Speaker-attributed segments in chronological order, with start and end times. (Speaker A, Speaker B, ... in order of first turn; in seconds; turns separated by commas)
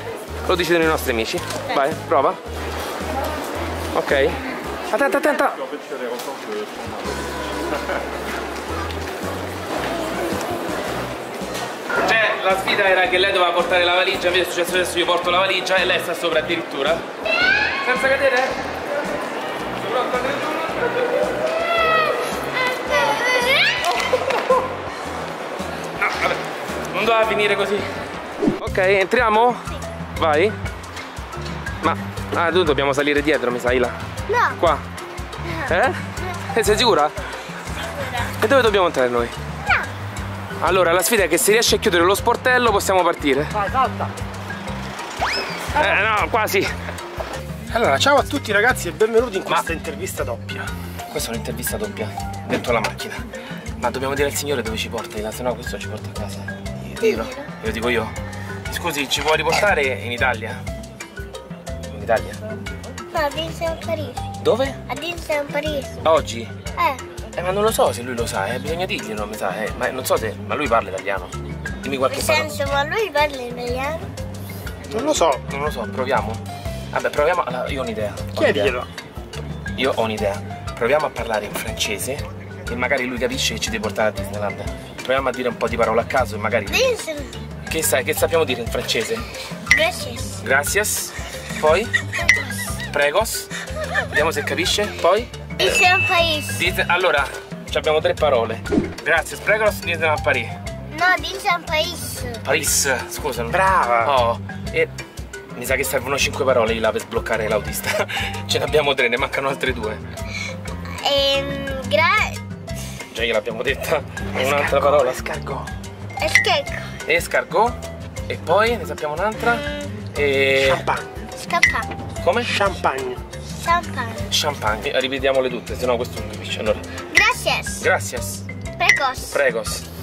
Speaker A: 0.5-2.4, Speaker A: 3.9-4.4, Speaker A: 4.9-5.6, Speaker B: 6.1-6.4, Speaker A: 12.0-17.0, Speaker A: 17.8-18.5, Speaker A: 19.8-21.3, Speaker C: 22.7-23.9, Speaker A: 26.0-26.4, Speaker A: 26.9-27.9, Speaker A: 28.6-30.5, Speaker A: 31.8-34.0, Speaker C: 34.3-34.6, Speaker A: 34.6-34.8, Speaker A: 35.7-36.0, Speaker A: 36.5-37.1, Speaker C: 37.8-38.3, Speaker A: 38.4-39.3, Speaker A: 40.6-43.5, Speaker B: 43.5-44.1, Speaker A: 45.8-46.7, Speaker A: 47.7-48.2, Speaker B: 47.9-50.7, Speaker A: 51.1-53.2, Speaker A: 53.8-58.1, Speaker C: 57.0-57.5, Speaker A: 58.7-60.6, Speaker A: 61.9-62.4, Speaker C: 63.1-64.2, Speaker A: 64.4-64.8, Speaker C: 64.9-65.9, Speaker A: 66.0-66.5, Speaker C: 66.8-67.0, Speaker A: 67.4-72.5, Speaker C: 72.1-74.1, Speaker B: 74.9-75.4, Speaker A: 75.5-76.4, Speaker A: 76.9-78.8, Speaker B: 78.3-78.9, Speaker A: 79.8-86.9, Speaker C: 86.7-87.4, Speaker A: 87.7-89.2, Speaker C: 89.7-90.4, Speaker A: 90.4-91.9, Speaker A: 92.9-93.5, Speaker A: 94.1-95.8, Speaker C: 95.6-96.6, Speaker A: 96.5-100.5, Speaker C: 100.9-102.5, Speaker A: 102.4-104.9, Speaker A: 105.5-110.0, Speaker C: 111.0-112.4, Speaker A: 113.1-115.2, Speaker B: 114.4-115.7, Speaker C: 116.2-116.9, Speaker A: 117.1-117.8, Speaker A: 118.3-119.6, Speaker A: 120.2-120.8, Speaker B: 120.6-121.1, Speaker C: 121.4-121.9, Speaker A: 122.2-122.5, Speaker B: 122.5-123.2, Speaker C: 123.5-124.2, Speaker A: 124.3-126.8, Speaker C: 127.1-127.9, Speaker A: 127.8-128.4, Speaker C: 128.8-129.4, Speaker A: 129.3-129.8